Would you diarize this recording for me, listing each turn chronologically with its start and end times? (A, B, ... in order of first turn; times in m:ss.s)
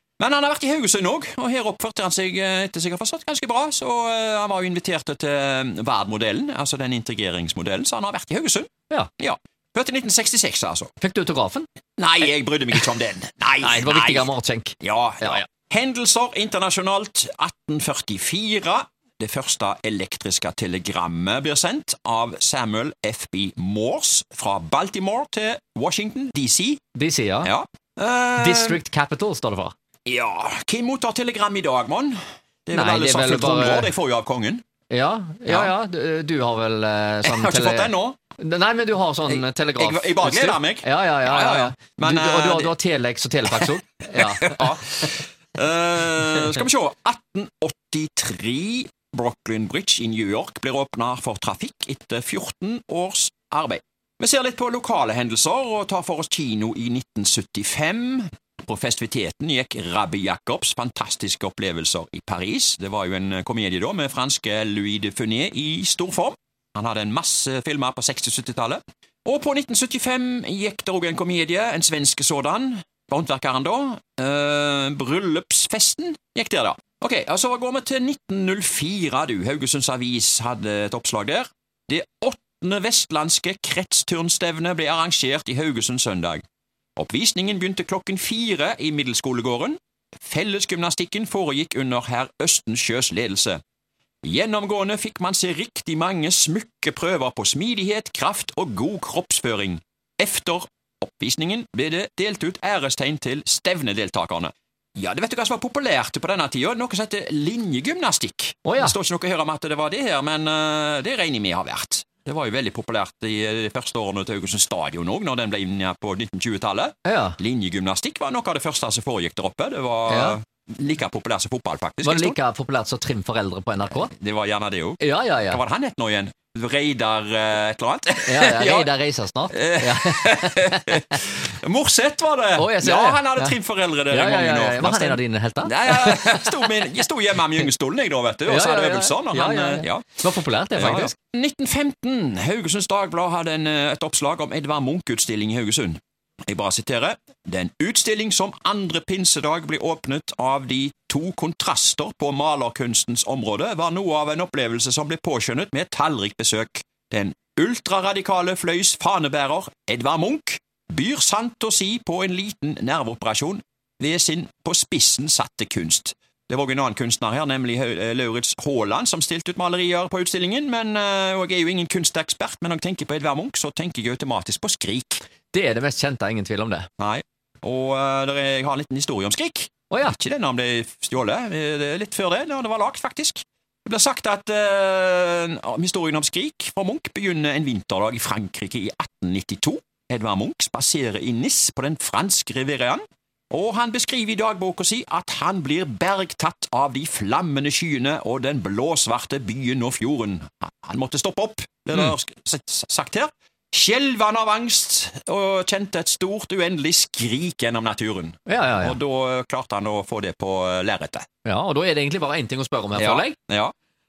0:00.2-0:10.9 A
0:11.0-0:11.7 B
0:12.0-0:14.3 A
0:13.6-0:15.4 B
0:14.8-0:26.8 A
0:26.9-0:27.5 B
0:27.4-0:28.8 A
0:28.4-0:29.7 B
0:30.0-0:34.6 A
0:32.7-0:33.9 B
0:34.9-0:45.1 B
0:35.4-0:35.7 A
0:37.2-0:38.2 A
0:39.2-0:42.7 A
0:43.5-1:26.4 A
1:27.0-1:33.6 A
1:34.2-2:02.4 A
1:48.6-1:49.0 B
1:57.0-1:57.4 B
2:00.1-2:00.4 B
2:02.0-2:04.1 B
2:04.0-2:08.9 A
2:05.0-2:05.6 B
2:08.2-2:11.2 B
2:09.5-2:20.2 A
2:12.6-2:13.6 B
2:14.1-2:16.6 B
2:18.5-2:21.1 B
2:20.8-2:55.2 A
2:55.5-2:56.9 B
2:57.0-3:31.2 A
2:59.9-3:00.2 B
3:28.5-3:29.0 B
3:31.4-3:33.4 B
3:33.0-3:33.7 A